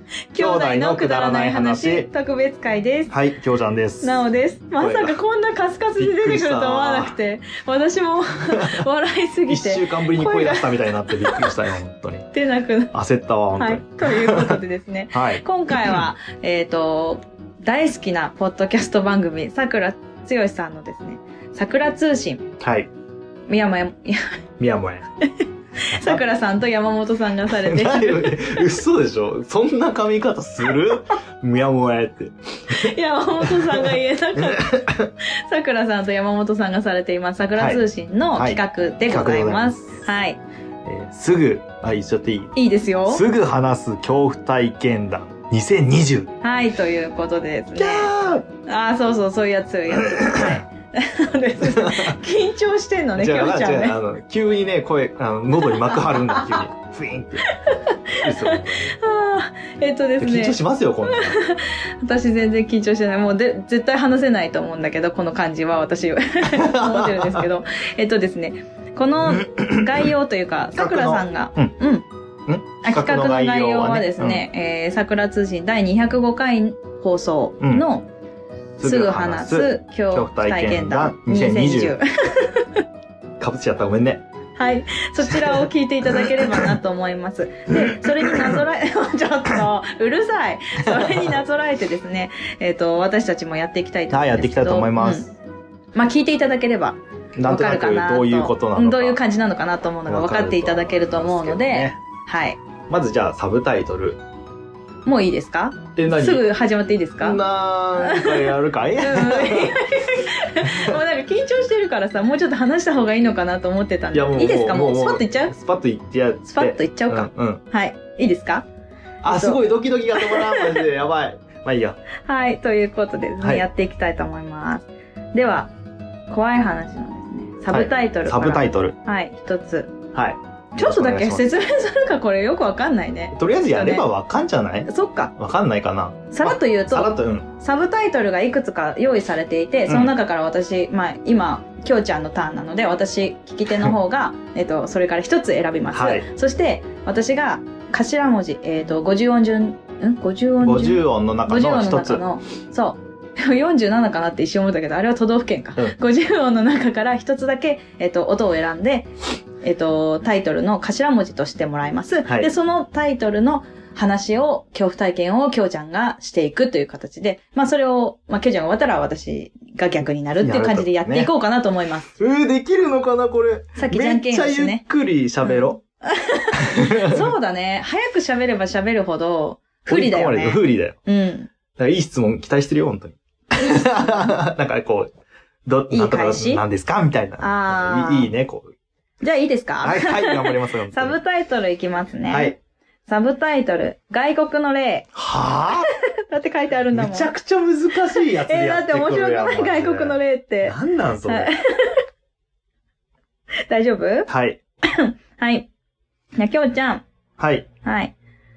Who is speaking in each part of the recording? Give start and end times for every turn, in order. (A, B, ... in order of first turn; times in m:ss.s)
0:00.3-0:03.1 A
0:00.4-0:02.1 B
0:03.1-0:04.2 B
0:04.0-0:11.5 A
0:04.8-0:05.2 B
0:06.0-0:07.2 B
0:08.5-0:08.8 B
0:09.5-0:12.3 B
0:12.3-0:12.9 A
0:12.9-0:14.6 B
0:13.6-0:22.5 A
0:15.1-0:16.0 B
0:22.6-0:22.9 B
0:23.5-0:24.4 A
0:24.6-0:25.0 B
0:25.2-0:28.6 A
0:25.9-0:26.2 B
0:27.5-0:35.1 B
0:32.7-0:40.4 A
0:37.6-0:40.0 B
0:40.8-0:42.5 B
0:42.5-0:43.2 A
0:43.1-0:46.3 B
0:46.4-0:48.1 A
0:47.8-0:48.5 B
0:48.6-0:54.0 A
0:49.9-0:50.6 B
0:51.6-0:52.2 B
0:53.2-0:59.0 B
0:55.9-0:56.4 A
0:57.5-1:12.0 A
1:00.2-1:01.4 B
1:06.5-1:07.4 B
1:09.2-1:10.1 B
1:10.8-1:11.7 B
1:12.5-1:14.4 B
1:12.8-1:18.1 A
1:17.6-1:17.9 B
1:18.8-1:22.0 B
1:18.8-1:22.8 A
1:23.4-1:24.2 B
1:24.6-1:35.3 A
1:25.2-1:26.7 B
1:27.8-1:28.6 B
1:30.8-1:31.3 B
1:34.1-1:35.3 B
1:35.9-1:42.6 A
1:37.4-1:39.2 B
1:40.1-1:42.0 B
1:42.9-1:44.2 B
1:45.0-1:47.4 A
1:46.0-1:46.4 B
1:47.2-1:50.0 B
1:48.0-1:55.5 A
1:50.6-1:51.0 B
1:54.1-1:57.6 B
1:56.5-1:58.6 A
1:59.2-2:02.0 B
1:59.2-1:59.6 A
2:00.2-2:00.8 A
2:02.2-2:05.7 A
2:06.3-2:09.9 A
2:07.7-2:08.9 B
2:10.1-2:11.5 B
2:10.7-2:14.1 A
2:13.3-2:17.5 B
2:14.9-2:15.3 A
2:16.3-2:52.1 A
2:19.9-2:20.1 B
2:25.9-2:26.3 B
2:30.6-2:32.2 B
2:50.4-2:51.3 B
2:52.2-2:55.8 B
2:53.8-2:54.8 A
2:55.4-3:01.5 A
2:56.6-2:57.3 B
2:59.9-3:01.0 B
3:01.8-3:05.1 B
3:04.0-3:04.3 A
3:05.6-3:08.7 B
3:05.9-3:06.6 A
3:07.4-3:08.3 A
3:09.2-3:12.5 A
3:09.8-3:11.2 B
3:12.3-3:12.6 B
3:13.0-3:15.1 A
3:15.1-3:15.9 B
3:15.7-3:17.3 A
3:16.9-3:21.5 B
3:18.2-3:22.0 A
3:23.7-3:24.3 A
3:24.3-3:24.6 B
3:24.8-3:25.7 A
3:26.4-3:27.0 A
3:27.4-3:27.7 B
3:27.8-3:28.1 A